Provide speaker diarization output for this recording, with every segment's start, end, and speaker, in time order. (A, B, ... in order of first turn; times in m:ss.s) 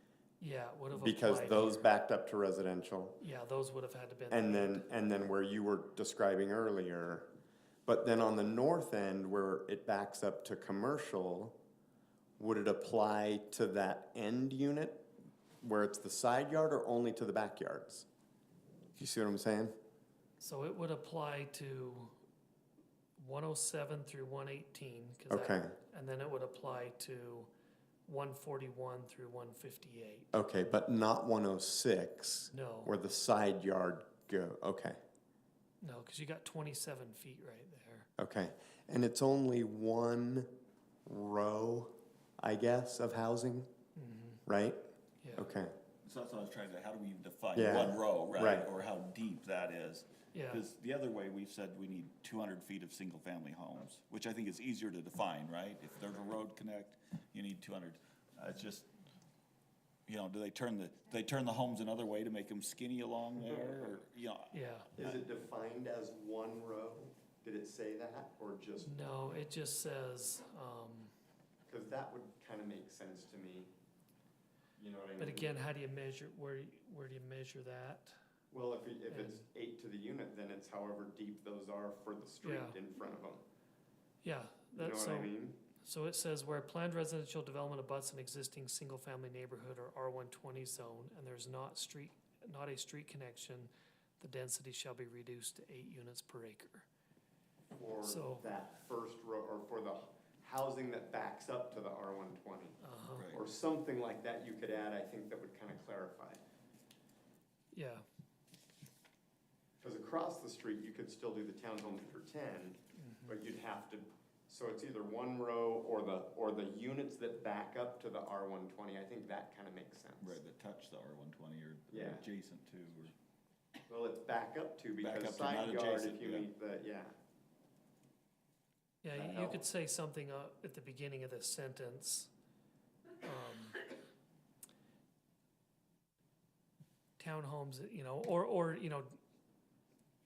0:00.4-0:01.8 A
0:00.9-0:03.2 B
0:03.2-0:04.9 A
0:04.3-0:07.3 B
0:07.8-0:11.6 B
0:12.4-0:15.1 B
0:15.6-0:18.0 B
0:19.0-0:19.7 B
0:20.4-0:22.2 A
0:23.2-0:27.5 A
0:25.3-0:25.7 B
0:28.0-0:30.3 A
0:30.3-0:35.0 B
0:32.5-0:32.9 A
0:35.8-0:38.1 A
0:38.2-0:40.5 B
0:41.0-0:43.7 B
0:44.0-0:44.4 A
0:44.4-0:44.8 B
0:45.2-0:45.5 A
0:45.3-0:45.7 B
0:46.0-0:58.9 C
0:47.5-0:48.7 B
0:50.3-0:50.6 A
1:00.1-1:05.2 C
1:04.5-1:04.9 A
1:05.0-1:08.9 B
1:08.8-1:11.1 A
1:11.7-1:13.7 B
1:14.8-1:15.5 B
1:15.2-1:18.2 A
1:18.5-1:23.4 B
1:19.1-1:19.4 A
1:22.4-1:22.8 A
1:24.2-1:36.9 A
1:24.7-1:25.6 B
1:37.7-1:42.8 B
1:38.0-1:38.5 A
1:42.8-1:43.3 A
1:43.1-1:43.5 C
1:43.3-1:46.4 B
1:47.7-1:48.0 A
1:49.8-2:00.4 B
1:53.0-1:53.3 A
2:00.2-2:03.1 C
2:01.9-2:02.2 B
2:03.9-2:07.1 B
2:05.0-2:06.5 C
2:09.0-2:12.3 A
2:09.1-2:09.6 B
2:13.2-2:13.8 A
2:17.2-2:19.2 A